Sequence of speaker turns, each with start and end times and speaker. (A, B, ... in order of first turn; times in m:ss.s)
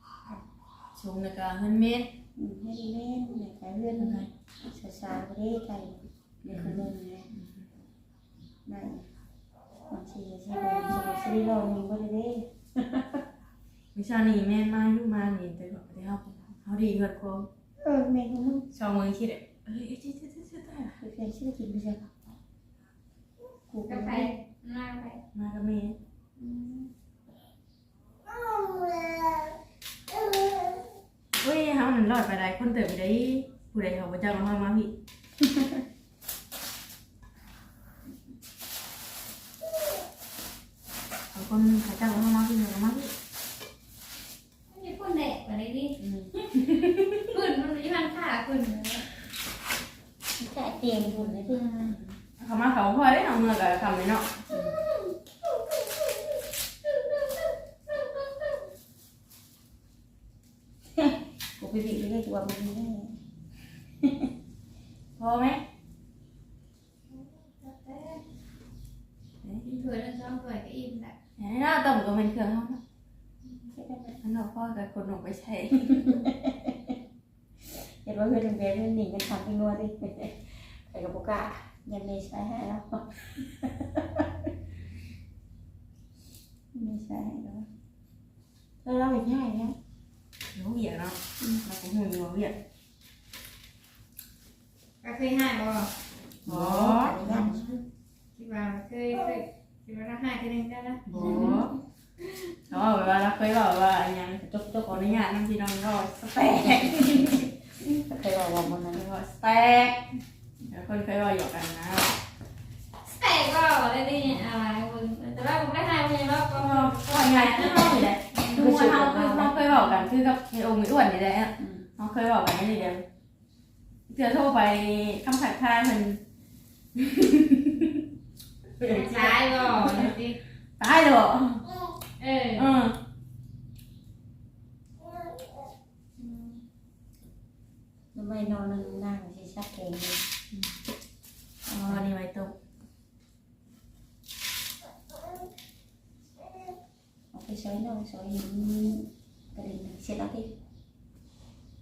0:01.0-0:02.1 A
0:02.4-0:07.3 B
0:03.9-0:04.3 A
0:06.5-0:07.6 A
0:08.7-0:09.1 B
0:09.9-0:13.2 B
0:14.0-0:17.5 A
0:17.8-0:18.7 B
0:18.7-0:21.0 A
0:21.0-0:22.1 B
0:23.7-0:24.3 B
0:23.9-0:25.2 C
0:25.4-0:26.0 A
0:26.4-0:26.9 C
0:31.4-0:34.9 A
0:41.3-0:43.1 A
0:44.7-0:46.0 C
0:46.0-0:46.3 B
0:46.6-0:47.3 A
0:47.3-0:49.1 C
0:50.4-0:51.7 B
0:51.5-0:52.0 C
0:52.4-0:54.3 A
0:54.5-0:54.8 B
1:01.0-1:03.2 B
1:04.0-1:04.3 B
1:05.2-1:05.6 A
1:07.1-1:08.2 C
1:09.4-1:09.8 A
1:09.7-1:11.2 C
1:11.4-1:12.8 A
1:13.7-1:14.2 B
1:14.2-1:16.2 A
1:15.9-1:17.0 B
1:17.6-1:24.5 B
1:26.7-1:27.7 B
1:28.8-1:29.8 B
1:30.6-1:32.6 A
1:35.0-1:35.9 C
1:36.4-1:37.5 A
1:36.4-1:37.8 B
1:38.4-1:41.7 C
1:41.1-1:41.7 A
1:41.2-1:41.7 B
1:42.7-1:47.5 A
1:44.5-1:44.9 B
1:46.7-1:47.3 B
1:47.8-1:49.0 B
1:48.9-1:50.0 A
1:50.7-1:52.2 A
1:53.0-1:58.6 C
1:56.6-2:03.0 A
1:58.5-1:59.6 B
2:01.6-2:01.9 B
2:04.1-2:06.2 A
2:07.0-2:08.0 A
2:08.8-2:10.1 A
2:08.9-2:10.4 C
2:10.8-2:11.6 A
2:12.2-2:12.7 C
2:12.6-2:13.0 A
2:16.2-2:16.6 C
2:18.1-2:20.2 B
2:21.7-2:22.0 B
2:21.8-2:22.6 A
2:27.3-2:30.5 B